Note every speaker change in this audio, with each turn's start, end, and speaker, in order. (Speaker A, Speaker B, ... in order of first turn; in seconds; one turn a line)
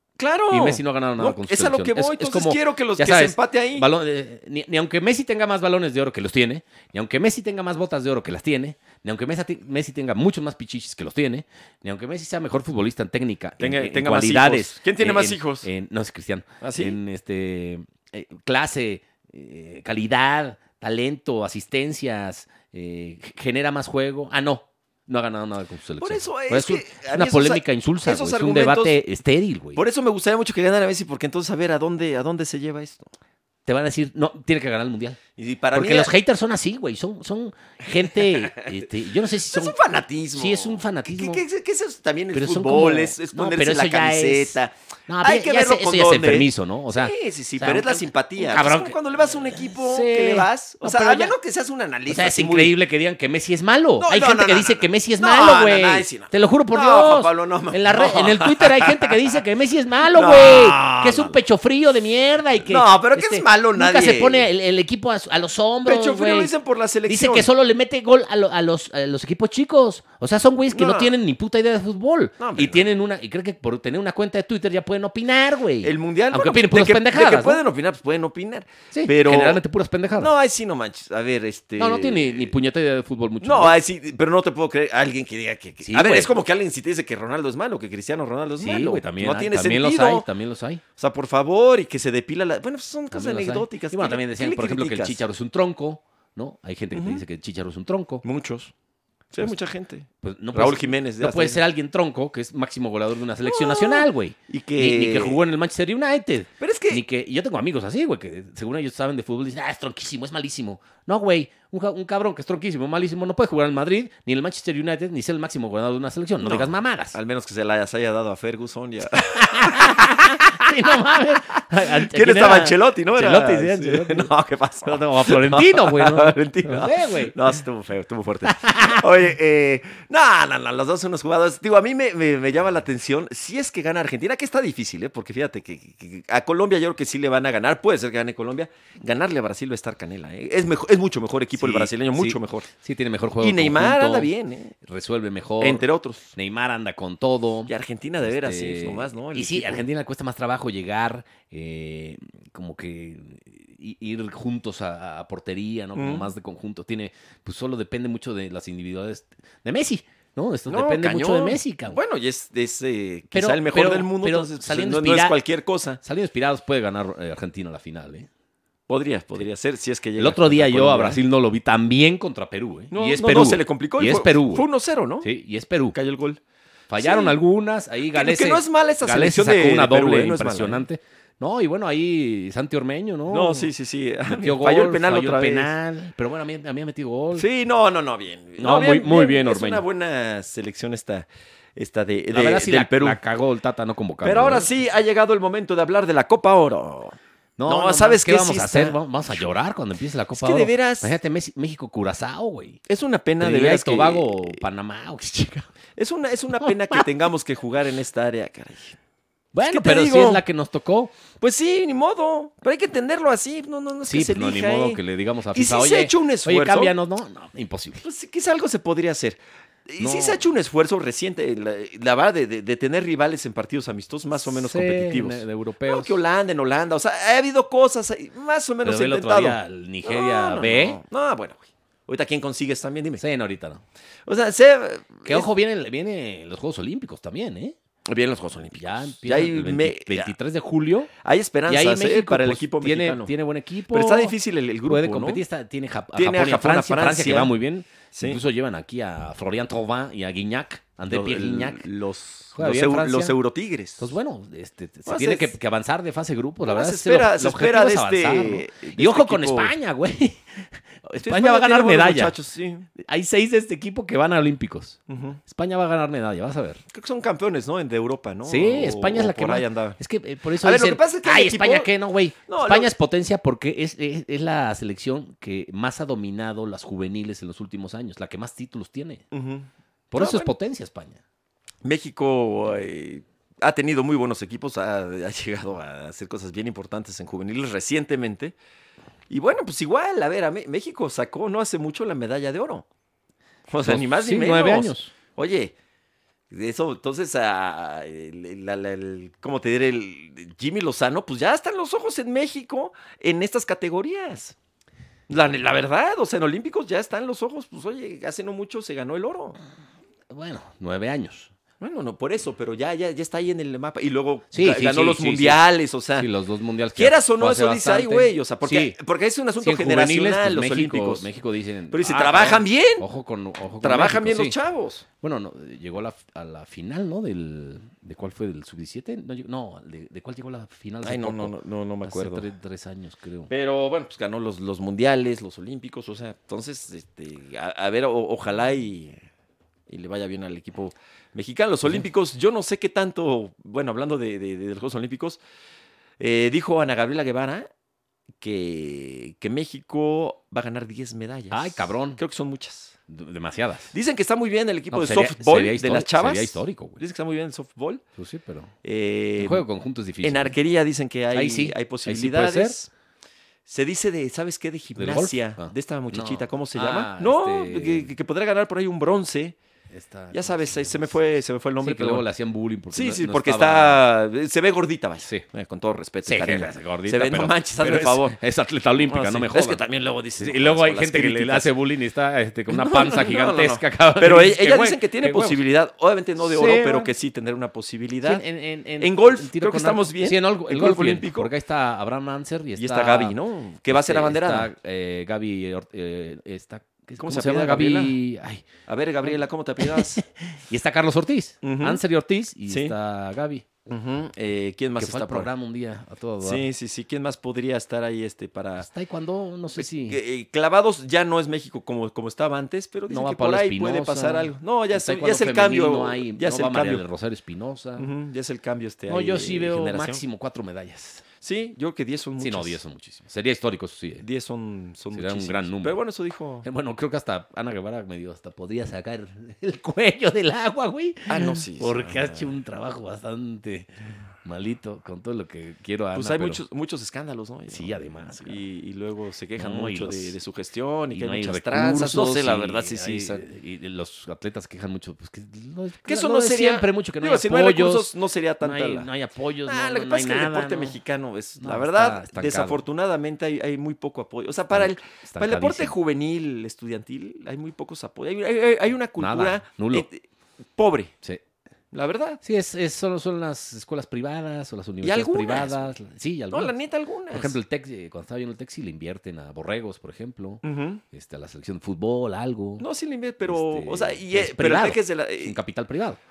Speaker A: 0.2-3.9
Speaker B: 0.5-29.8
Speaker A: 13.6-15.7
Speaker A: 16.6-17.0
Speaker A: 26.0-29.0
Speaker A: 29.7-33.1
Speaker B: 33.6-35.2
Speaker A: 35.4-36.1
Speaker B: 35.7-39.8
Speaker A: 38.0-38.9
Speaker A: 39.4-52.7
Speaker B: 40.3-41.4
Speaker B: 42.3-51.3
Speaker B: 52.1-66.5
Speaker A: 54.0-59.3
Speaker A: 60.0-61.4
Speaker A: 62.6-64.5
Speaker A: 65.8-67.5
Speaker B: 67.1-77.6
Speaker A: 70.7-71.1
Speaker A: 72.4-72.8
Speaker A: 75.8-79.6
Speaker B: 78.9-80.3
Speaker A: 80.2-82.5
Speaker B: 81.8-83.8
Speaker A: 83.4-90.3
Speaker B: 85.8-86.3
Speaker B: 88.6-90.8
Speaker A: 91.0-95.2
Speaker B: 93.1-98.2
Speaker A: 96.9-97.2
Speaker A: 98.2-98.7
Speaker A: 99.3-101.6
Speaker B: 100.2-117.2
Speaker A: 103.4-105.4
Speaker A: 106.6-107.0
Speaker A: 116.4-120.9
Speaker B: 119.3-124.3
Speaker A: 121.5-142.7
Speaker B: 124.8-127.3
Speaker B: 128.4-129.1
Speaker B: 141.6-144.3
Speaker A: 143.4-144.7
Speaker B: 144.8-147.7
Speaker A: 145.6-146.3
Speaker A: 147.7-149.8
Speaker B: 148.2-162.0
Speaker A: 155.9-156.3
Speaker A: 160.7-166.0
Speaker B: 163.3-165.4
Speaker B: 166.0-168.3
Speaker A: 168.9-171.2
Speaker B: 170.2-174.7
Speaker A: 172.9-175.3
Speaker B: 175.2-175.9
Speaker A: 175.9-176.4
Speaker B: 176.9-183.7
Speaker A: 177.0-177.4
Speaker A: 178.1-180.8
Speaker A: 183.3-185.7
Speaker B: 184.2-187.4
Speaker A: 187.3-193.2
Speaker B: 188.6-189.8
Speaker B: 192.3-194.7
Speaker A: 194.2-199.5
Speaker B: 197.6-202.8
Speaker A: 200.3-201.1
Speaker A: 202.9-204.6
Speaker B: 203.4-205.7
Speaker A: 206.0-209.0
Speaker B: 206.6-207.0
Speaker B: 209.5-211.1
Speaker A: 209.7-210.4
Speaker A: 211.4-215.0
Speaker B: 214.1-218.0
Speaker A: 215.5-216.9
Speaker A: 218.0-233.2
Speaker B: 220.0-220.4
Speaker B: 224.4-226.2
Speaker B: 228.8-231.0
Speaker B: 233.2-233.8
Speaker A: 234.3-235.5
Speaker B: 235.2-237.8
Speaker A: 238.1-240.3
Speaker B: 238.7-241.1
Speaker A: 241.2-243.3
Speaker B: 241.7-244.3
Speaker A: 243.9-245.4
Speaker B: 244.8-251.9
Speaker A: 246.1-247.5
Speaker A: 248.1-248.4
Speaker A: 251.1-254.1
Speaker B: 252.5-253.3
Speaker B: 254.0-262.3
Speaker A: 255.1-255.5
Speaker A: 256.6-259.7
Speaker A: 261.2-262.9
Speaker B: 263.0-266.8
Speaker A: 265.1-265.4
Speaker A: 266.9-270.0
Speaker B: 268.4-279.2
Speaker A: 270.6-271.9
Speaker A: 272.4-272.9
Speaker A: 279.3-280.5
Speaker B: 280.1-281.2
Speaker A: 281.8-288.5
Speaker A: 289.3-292.9
Speaker A: 293.7-295.7
Speaker B: 293.8-295.1
Speaker A: 296.5-304.6
Speaker A: 305.3-309.6
Speaker B: 310.3-311.5
Speaker A: 311.8-316.3
Speaker B: 314.5-315.6
Speaker B: 316.1-319.0
Speaker A: 316.9-321.3
Speaker B: 319.6-324.5
Speaker A: 321.9-323.1
Speaker A: 323.8-325.1
Speaker B: 325.2-331.5
Speaker A: 331.0-332.5
Speaker B: 332.1-333.5
Speaker A: 333.5-339.2
Speaker A: 339.9-345.4
Speaker A: 346.2-347.7
Speaker A: 348.4-353.0
Speaker B: 351.5-352.2
Speaker B: 353.1-353.9
Speaker A: 353.9-358.0
Speaker B: 354.9-357.0
Speaker B: 358.2-358.7
Speaker A: 358.8-359.6
Speaker B: 359.4-360.6
Speaker A: 360.2-362.9
Speaker B: 361.3-362.7
Speaker A: 363.7-369.6
Speaker B: 364.9-368.1
Speaker B: 369.9-371.1
Speaker A: 370.3-372.2
Speaker B: 371.8-374.0
Speaker A: 372.9-378.4
Speaker B: 376.2-379.8
Speaker A: 379.0-381.7
Speaker B: 380.4-385.6
Speaker A: 382.7-388.4
Speaker B: 386.4-387.1
Speaker B: 388.2-393.4
Speaker A: 389.0-391.5
Speaker A: 392.8-394.7
Speaker B: 393.9-398.7
Speaker A: 397.2-398.2
Speaker A: 398.9-400.2
Speaker B: 399.2-403.7
Speaker A: 401.6-402.0
Speaker A: 402.7-402.9
Speaker A: 403.9-405.5
Speaker B: 405.0-406.6
Speaker A: 406.4-408.9
Speaker B: 408.8-410.2
Speaker A: 409.7-417.0
Speaker B: 413.1-418.1
Speaker A: 418.0-420.2
Speaker B: 419.1-421.2
Speaker A: 421.4-422.8
Speaker B: 422.4-424.2
Speaker A: 424.2-426.7
Speaker B: 425.1-426.0
Speaker B: 426.6-433.9
Speaker A: 431.3-432.6
Speaker B: 434.4-436.6
Speaker A: 436.1-443.4
Speaker B: 437.7-438.6
Speaker B: 439.6-440.4
Speaker B: 441.1-451.0
Speaker A: 446.0-449.1
Speaker A: 449.6-460.2
Speaker B: 451.6-452.8
Speaker B: 454.7-455.9
Speaker B: 459.2-460.1
Speaker A: 460.8-461.1
Speaker A: 461.9-462.4
Speaker B: 462.4-466.8
Speaker A: 465.0-465.9
Speaker A: 466.5-467.6
Speaker B: 467.3-472.9
Speaker A: 470.6-471.0
Speaker A: 472.8-475.6
Speaker B: 473.4-476.2